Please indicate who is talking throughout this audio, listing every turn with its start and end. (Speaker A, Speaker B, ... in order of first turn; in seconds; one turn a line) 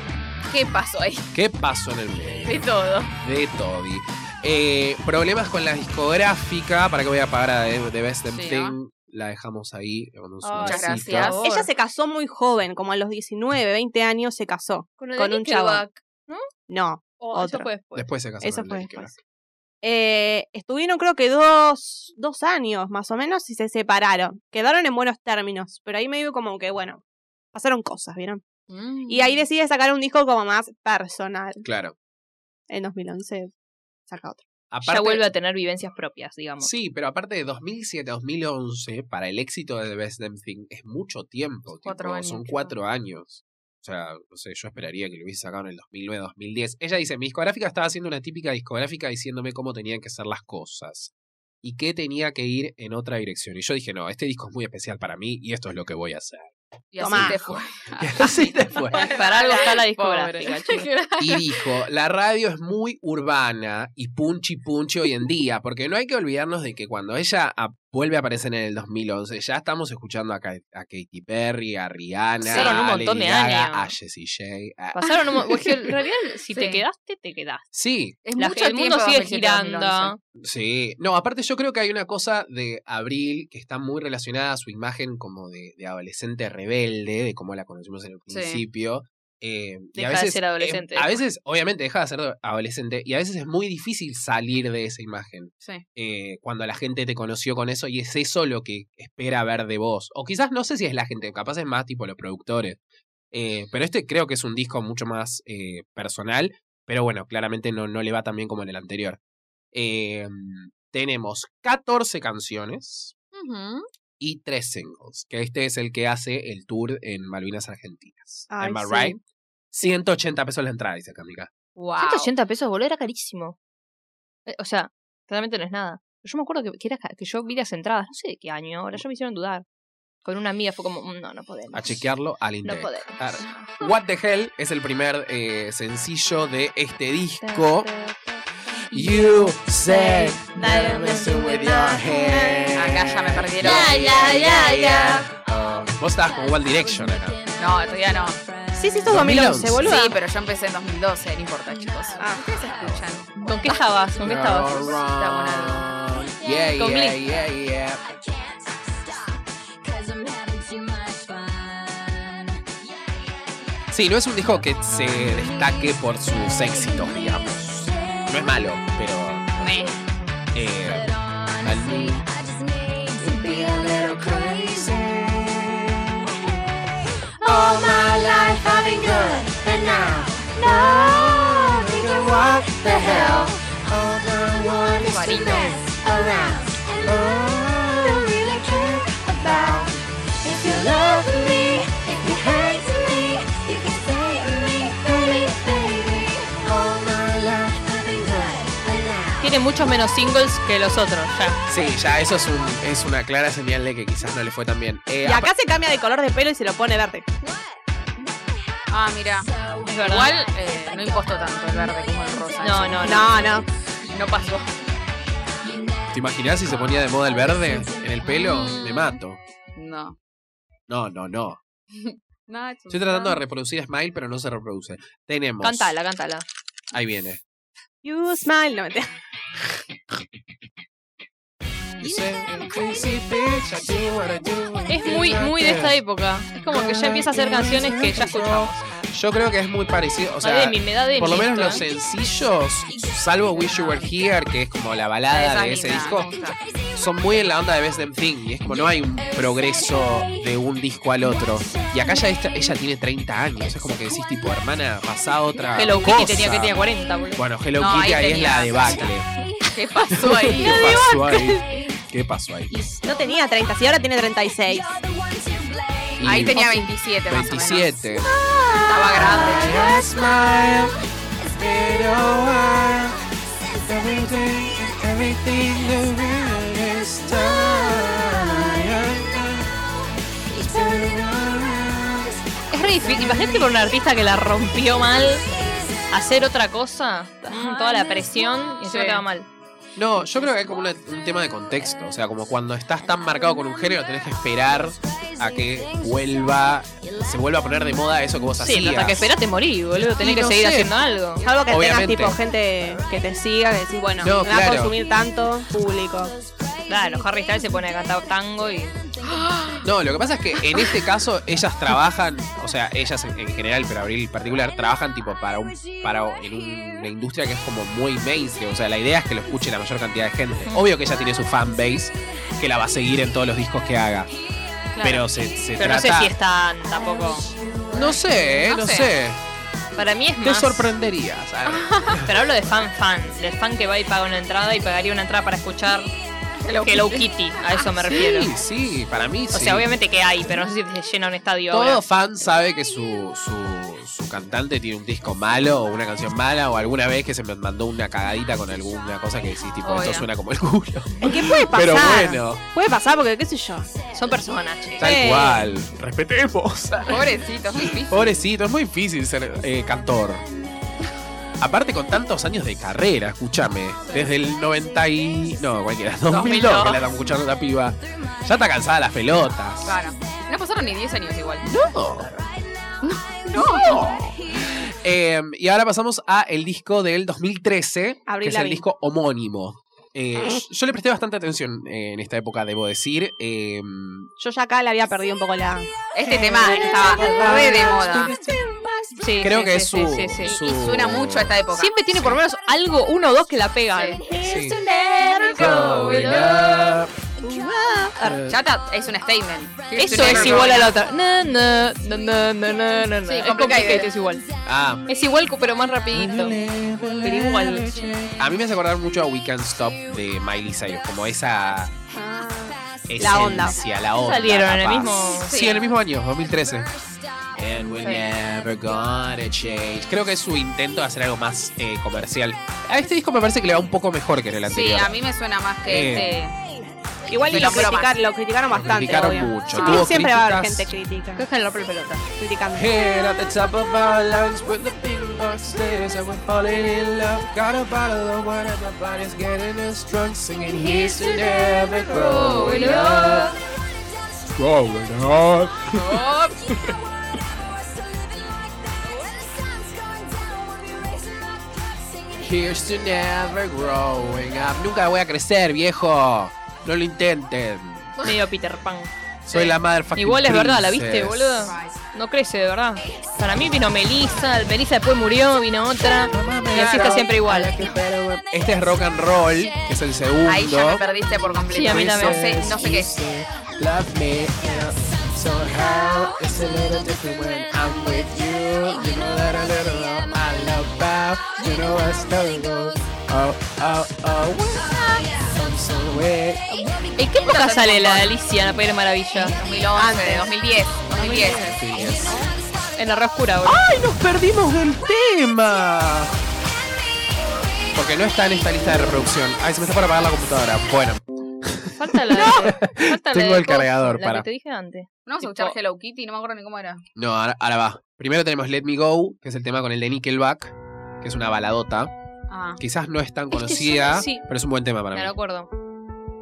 Speaker A: 0.5-1.3
Speaker B: 1.3-11.4
Speaker A: 2.5-3.1
Speaker A: 8.3-8.8
Speaker C: 10.4-11.5
Speaker A: 10.6-11.7
Speaker D: 11.4-15.8
Speaker C: 15.0-16.4
Speaker D: 16.7-17.7
Speaker C: 17.2-18.1
Speaker B: 17.9-19.1
Speaker D: 18.4-19.1
Speaker D: 19.8-27.0
Speaker D: 27.5-28.4
Speaker A: 28.7-29.4
Speaker D: 29.1-31.6
Speaker B: 31.6-31.9
Speaker D: 32.7-33.5
Speaker D: 34.1-34.4
Speaker B: 34.7-35.2
Speaker C: 34.8-36.7
Speaker B: 36.6-56.5
Speaker A: 41.8-42.8
Speaker A: 56.9-61.5
Speaker D: 57.0-57.4
Speaker B: 57.1-59.1
Speaker C: 58.9-60.9
Speaker B: 61.2-75.9
Speaker A: 72.4-72.8
Speaker C: 72.4-73.9
Speaker C: 74.9-77.7
Speaker A: 76.5-76.8
Speaker B: 77.7-78.2
Speaker A: 78.2-80.1
Speaker C: 78.3-80.2
Speaker B: 80.4-102.8
Speaker A: 88.3-88.6
Speaker C: 90.0-91.2
Speaker B: 103.3-109.2
Speaker B: 109.7-113.1
Speaker A: 113.3-113.9
Speaker B: 114.2-119.2
Speaker D: 118.5-119.2
Speaker B: 119.7-121.5
Speaker A: 121.8-122.3
Speaker C: 122.0-123.5
Speaker C: 124.5-129.6
Speaker C: 130.2-132.0
Speaker B: 131.7-137.9
Speaker C: 132.6-133.9
Speaker C: 137.4-138.4
Speaker B: 138.9-147.4
Speaker E: 138.9-142.0
Speaker D: 140.4-142.8
Speaker A: 142.7-144.2
Speaker E: 143.6-145.3
Speaker E: 146.2-149.1
Speaker A: 147.6-148.4
Speaker D: 148.7-150.2
Speaker B: 149.1-149.8
Speaker A: 149.8-153.8
Speaker E: 151.7-152.8
Speaker D: 152.2-152.4
Speaker B: 152.8-153.2
Speaker C: 153.4-155.0
Speaker B: 154.2-158.0
Speaker A: 155.0-155.9
Speaker E: 156.4-156.8
Speaker C: 156.8-157.2
Speaker E: 158.0-163.8
Speaker B: 163.9-169.7
Speaker E: 165.1-168.6
Speaker A: 169.6-169.9
Speaker B: 170.5-172.2
Speaker E: 170.8-175.1
Speaker B: 173.2-176.2
Speaker E: 176.3-183.9
Speaker B: 177.4-189.9
Speaker E: 184.4-189.9
Speaker A: 184.9-185.8
Speaker E: 190.4-199.5
Speaker B: 190.6-193.4
Speaker B: 194.4-199.4
Speaker C: 199.4-201.6
Speaker B: 201.7-205.5
Speaker D: 205.2-207.2
Speaker A: 208.9-213.4
Speaker E: 209.4-213.6
Speaker C: 209.8-210.3
Speaker C: 212.6-213.3
Speaker D: 213.0-213.7
Speaker A: 214.1-214.7
Speaker E: 215.6-219.0
Speaker B: 216.1-219.4
Speaker A: 219.8-220.2
Speaker B: 220.9-221.6
Speaker A: 221.9-223.4
Speaker B: 222.9-225.9
Speaker C: 225.6-226.4
Speaker B: 226.9-227.4
Speaker D: 228.0-229.1
Speaker B: 232.0-236.0
Speaker E: 232.0-233.3
Speaker C: 234.9-238.9
Speaker B: 236.7-246.3
Speaker C: 240.4-241.8
Speaker E: 242.9-244.0
Speaker A: 245.3-246.6
Speaker E: 246.0-247.3
Speaker B: 246.9-256.8
Speaker E: 248.7-250.6
Speaker E: 251.2-252.8
Speaker E: 253.7-254.6
Speaker C: 255.7-257.4
Speaker B: 257.4-259.3
Speaker A: 257.7-259.1
Speaker E: 259.3-260.0
Speaker A: 259.7-261.1
Speaker B: 260.1-262.8
Speaker D: 260.7-261.6
Speaker E: 260.7-261.9
Speaker E: 262.7-263.3
Speaker D: 263.0-264.9
Speaker E: 264.6-266.4
Speaker B: 266.2-266.6
Speaker A: 266.2-267.9
Speaker C: 266.5-266.9
Speaker B: 267.3-268.3
Speaker E: 268.1-283.0
Speaker A: 268.8-269.8
Speaker B: 269.1-270.9
Speaker B: 271.6-273.1
Speaker B: 273.8-279.7
Speaker B: 280.6-282.3
Speaker C: 282.7-285.4
Speaker B: 283.0-283.7
Speaker E: 285.2-286.2
Speaker C: 286.1-289.5
Speaker E: 287.5-288.7
Speaker A: 288.8-289.2
Speaker B: 289.9-299.3
Speaker E: 293.2-294.1
Speaker E: 295.0-298.0
Speaker C: 298.6-301.4
Speaker B: 300.1-300.9
Speaker D: 301.4-306.3
Speaker B: 301.7-302.4
Speaker C: 304.0-304.4
Speaker B: 304.2-304.9
Speaker E: 306.3-308.1
Speaker C: 306.9-308.9
Speaker E: 308.9-309.5
Speaker A: 309.2-309.9
Speaker B: 309.8-324.3
Speaker E: 315.7-317.1
Speaker A: 324.9-325.2
Speaker B: 325.0-326.3
Speaker C: 325.8-327.5
Speaker E: 326.9-328.2
Speaker B: 327.9-329.4
Speaker A: 327.9-329.1
Speaker C: 329.9-330.9
Speaker B: 330.4-332.3
Speaker A: 331.6-332.2
Speaker C: 332.2-336.1
Speaker A: 336.6-338.2
Speaker C: 336.8-338.5
Speaker B: 338.1-339.9
Speaker C: 339.5-342.0
Speaker B: 341.7-352.6
Speaker A: 349.8-350.3
Speaker D: 351.2-353.9
Speaker E: 354.0-354.5
Speaker C: 354.1-355.1
Speaker B: 355.0-360.4
Speaker D: 355.0-355.7
Speaker A: 357.1-358.4
Speaker E: 360.5-360.9
Speaker B: 361.6-370.0
Speaker E: 364.1-365.7
Speaker A: 366.3-367.0
Speaker C: 366.3-367.0
Speaker E: 368.1-368.6
Speaker A: 369.8-371.6
Speaker B: 371.6-372.3
Speaker E: 372.2-374.9
Speaker A: 373.0-374.0
Speaker B: 373.5-384.3
Speaker D: 378.3-378.9
Speaker D: 384.4-388.6
Speaker A: 386.1-388.3
Speaker B: 386.4-388.6
Speaker E: 386.6-389.6
Speaker C: 389.2-390.6
Speaker B: 389.4-391.6
Speaker A: 390.4-391.9
Speaker C: 391.7-394.2
Speaker B: 392.1-392.4
Speaker A: 393.9-394.2
Speaker E: 394.2-398.1
Speaker D: 394.3-394.6
Speaker B: 394.4-394.8
Speaker C: 395.3-396.6
Speaker B: 395.5-397.1
Speaker D: 397.4-398.4
Speaker B: 398.2-398.6
Speaker A: 398.5-400.9
Speaker E: 399.8-403.1
Speaker C: 399.9-404.4
Speaker B: 400.1-400.9
Speaker A: 403.2-404.1
Speaker B: 404.6-405.0
Speaker C: 405.1-406.6
Speaker B: 406.1-411.9
Speaker C: 407.2-408.0
Speaker E: 408.0-408.6
Speaker E: 410.9-411.1
Speaker D: 412.1-413.8
Speaker E: 412.4-414.1
Speaker B: 413.1-416.9
Speaker C: 414.1-415.6
Speaker A: 415.4-415.8
Speaker E: 416.4-419.2
Speaker B: 417.5-425.2
Speaker A: 424.7-426.6
Speaker B: 425.8-426.3
Speaker E: 426.0-427.9
Speaker D: 427.3-431.4
Speaker A: 427.5-428.1
Speaker B: 428.7-430.9
Speaker C: 431.4-432.2
Speaker D: 432.4-432.9
Speaker B: 432.7-443.5
Speaker E: 440.7-444.7
Speaker A: 442.1-443.2
Speaker C: 442.4-443.5
Speaker B: 444.6-446.9
Speaker A: 445.9-446.6
Speaker E: 446.5-452.9
Speaker B: 452.4-458.2
Speaker A: 458.2-458.4
Speaker C: 458.2-467.8
Speaker B: 459.4-461.6
Speaker A: 461.6-462.0
Speaker E: 463.1-464.7
Speaker B: 466.3-471.0
Speaker A: 466.7-467.3
Speaker E: 467.7-470.0
Speaker A: 470.4-473.1
Speaker C: 471.7-472.4
Speaker B: 471.7-486.7
Speaker E: 473.5-483.0
Speaker E: 484.7-487.4
Speaker C: 487.2-489.6
Speaker A: 487.4-488.4
Speaker A: 489.4-491.8
Speaker D: 489.9-490.5
Speaker B: 491.1-492.4
Speaker E: 491.9-493.1
Speaker C: 493.0-493.8
Speaker B: 493.6-496.4
Speaker B: 497.9-504.4
Speaker C: 502.0-505.8
Speaker A: 505.2-507.0
Speaker B: 507.1-512.1
Speaker A: 512.5-512.8
Speaker B: 512.8-515.3
Speaker C: 513.5-514.4
Speaker C: 515.1-515.7